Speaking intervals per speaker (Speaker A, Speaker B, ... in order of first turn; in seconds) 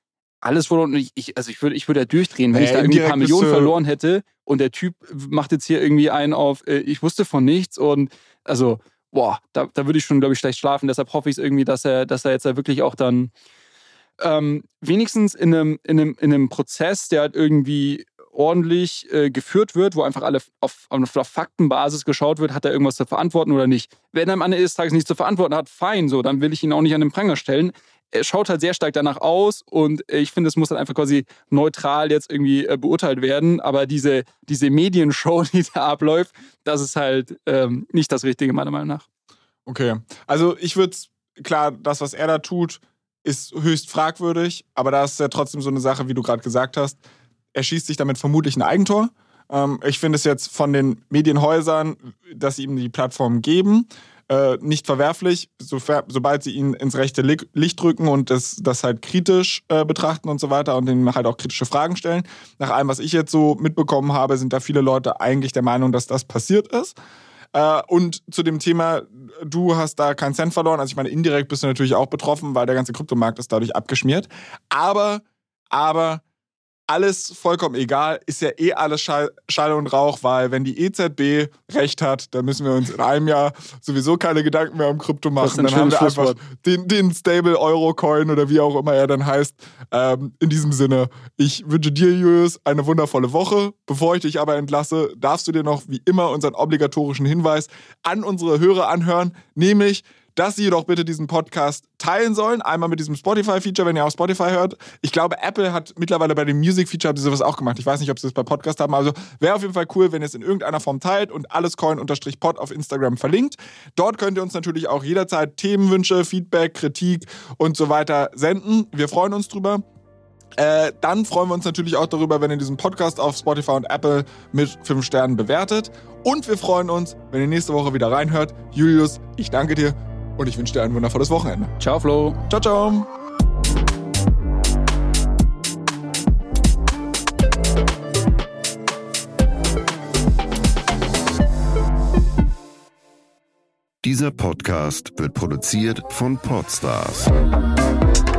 Speaker A: 0.4-13.3, 14.2-39.1, 85.4-86.4, 131.8-132.4
Speaker B: 2.5-3.8, 39.7-47.0, 47.5-67.0, 67.5-76.2, 76.9-119.8, 120.6-131.7, 132.5-133.1
Speaker C: 144.0-147.3